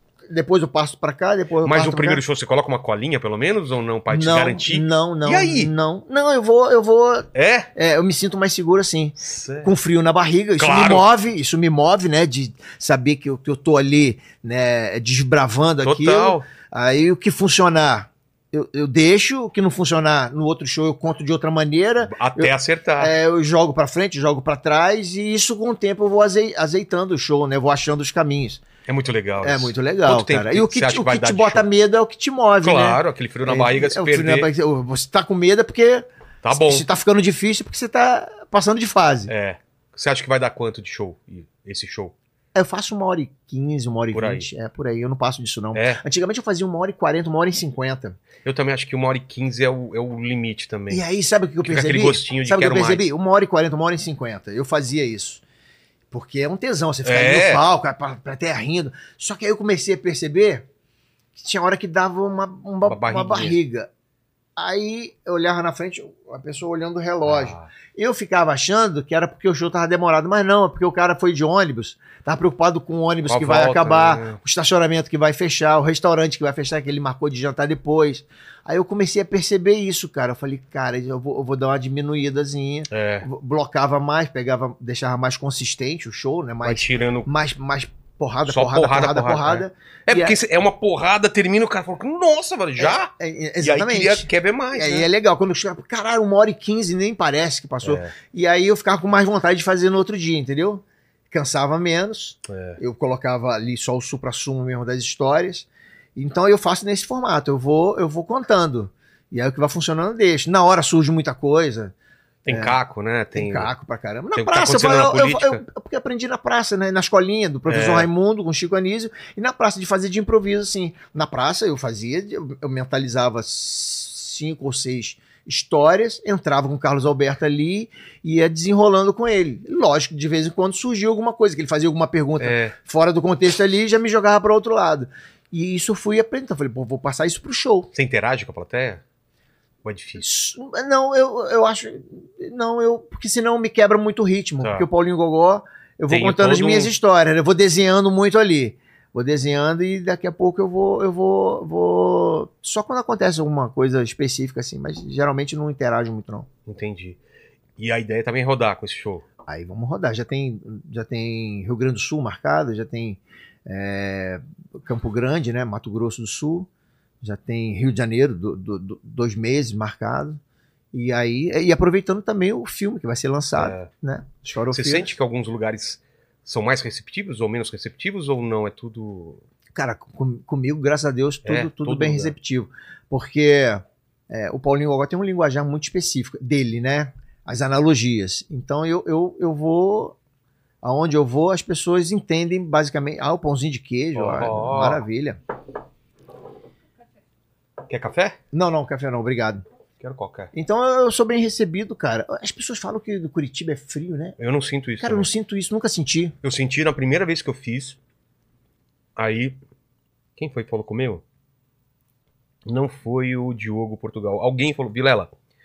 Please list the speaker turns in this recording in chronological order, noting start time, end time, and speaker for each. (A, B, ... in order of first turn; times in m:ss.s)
0:00.3-0:02.2 A
0:01.6-0:05.7 B
0:04.1-0:28.6 A
0:07.4-0:07.7 B
0:09.2-0:09.7 B
0:10.6-0:11.1 B
0:15.8-0:16.4 B
0:22.0-0:23.1 B
0:28.9-0:31.6 B
0:29.4-0:39.3 A
0:32.6-0:34.5 B
0:36.4-0:36.9 B
0:39.3-0:42.1 B
0:42.5-0:48.2 A
0:44.1-0:44.5 B
0:45.7-0:46.0 B
0:48.4-0:51.0 B
0:50.9-0:55.4 A
0:51.6-0:53.0 B
0:56.1-1:00.7 A
0:57.0-0:57.6 B
1:01.4-1:03.9 A
1:02.8-1:03.6 B
1:04.6-1:30.4 A
1:07.2-1:07.7 B
1:13.3-1:14.4 B
1:22.9-1:23.3 B
1:26.6-1:27.3 B
1:28.4-1:35.1 B
1:32.8-1:51.9 A
1:37.8-1:38.1 B
1:42.5-1:42.8 B
1:52.4-1:53.7 B
1:52.5-1:52.8 A
1:53.4-2:17.9 A
1:54.4-1:55.6 B
1:57.7-1:58.1 B
2:12.4-2:12.7 B
2:18.0-2:19.0 B
2:19.8-2:20.2 B
2:20.2-2:36.5 A
2:26.1-2:26.9 B
2:36.7-2:37.2 B
2:37.8-2:39.3 B
2:39.5-2:46.7 A
2:47.2-2:50.4 A
2:50.9-2:55.2 A
2:53.6-2:53.9 B
2:54.7-2:59.4 B
2:59.7-3:10.2 A
3:01.4-3:02.3 B
3:10.8-3:15.4 A
3:14.1-3:15.0 B
3:17.9-3:18.4 B
3:18.5-3:19.6 A
3:20.0-3:20.5 B
3:20.5-3:24.4 A
3:24.4-3:25.3 B
3:25.0-3:26.4 A
3:26.4-3:28.0 B
3:29.2-3:29.6 B
3:30.4-3:31.2 B
3:32.7-3:35.3 B